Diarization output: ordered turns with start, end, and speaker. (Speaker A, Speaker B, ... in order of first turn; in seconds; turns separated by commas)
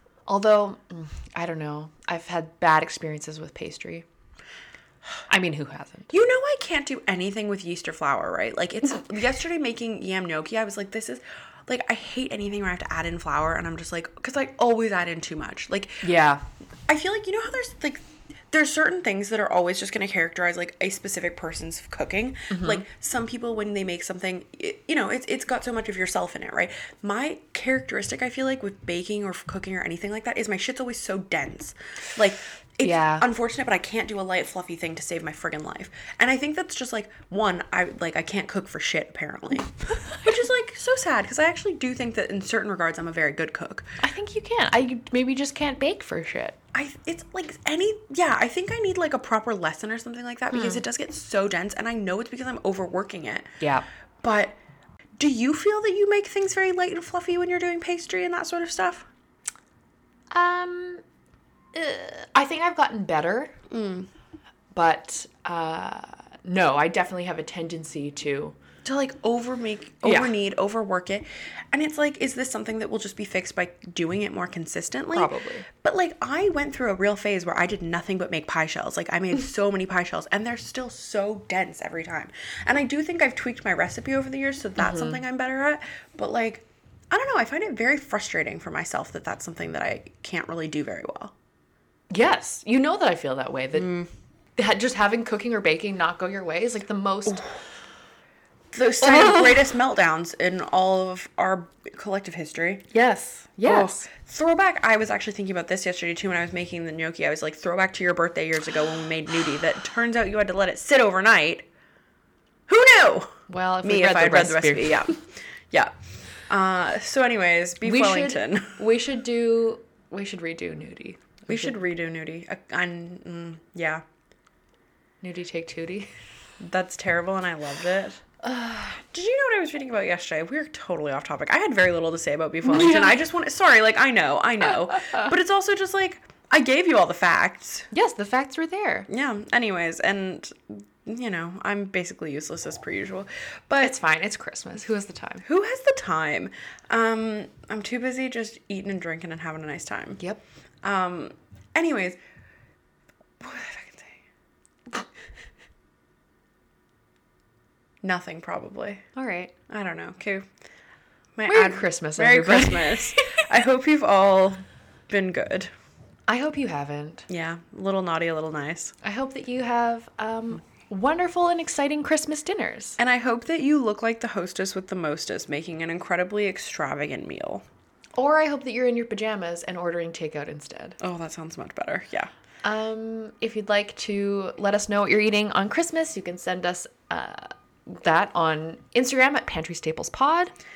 Speaker A: 0.3-4.0, Speaker A: 5.3-6.1, Speaker B: 6.1-16.1, Speaker A: 16.0-16.4, Speaker B: 16.9-43.9, Speaker A: 22.5-22.8, Speaker A: 32.8-33.3, Speaker A: 44.0-46.6, Speaker B: 46.7-53.5, Speaker A: 50.5-50.8, Speaker A: 53.6-53.9, Speaker B: 54.2-54.5, Speaker B: 55.2-59.1, Speaker A: 60.3-61.0, Speaker A: 61.7-63.5, Speaker B: 63.7-64.1, Speaker A: 64.7-68.6, Speaker B: 68.8-75.3, Speaker A: 70.0-70.3, Speaker A: 75.1-75.7, Speaker B: 75.8-91.3, Speaker A: 84.8-85.2, Speaker A: 92.1-94.0, Speaker B: 93.7-94.1, Speaker A: 94.6-97.6, Speaker B: 98.7-102.9, Speaker A: 102.9-104.0, Speaker B: 103.6-111.7, Speaker B: 112.7-115.9, Speaker A: 113.5-115.2, Speaker B: 116.5-118.8, Speaker A: 117.8-121.8, Speaker B: 121.5-124.0, Speaker A: 125.2-126.1, Speaker B: 126.6-128.2, Speaker A: 128.4-129.0, Speaker B: 129.0-137.9, Speaker A: 132.6-133.2, Speaker A: 137.9-139.1, Speaker B: 139.1-143.9, Speaker A: 143.8-145.4, Speaker B: 145.4-150.2, Speaker B: 150.8-152.2, Speaker B: 153.4-154.2, Speaker B: 158.0-159.0, Speaker A: 159.2-159.5, Speaker B: 159.7-160.4, Speaker B: 161.4-165.7, Speaker A: 161.5-163.4, Speaker A: 166.3-167.3, Speaker B: 167.3-168.9, Speaker A: 169.0-173.0, Speaker B: 173.0-177.6, Speaker A: 178.1-181.0, Speaker B: 181.0-182.3, Speaker A: 182.6-190.5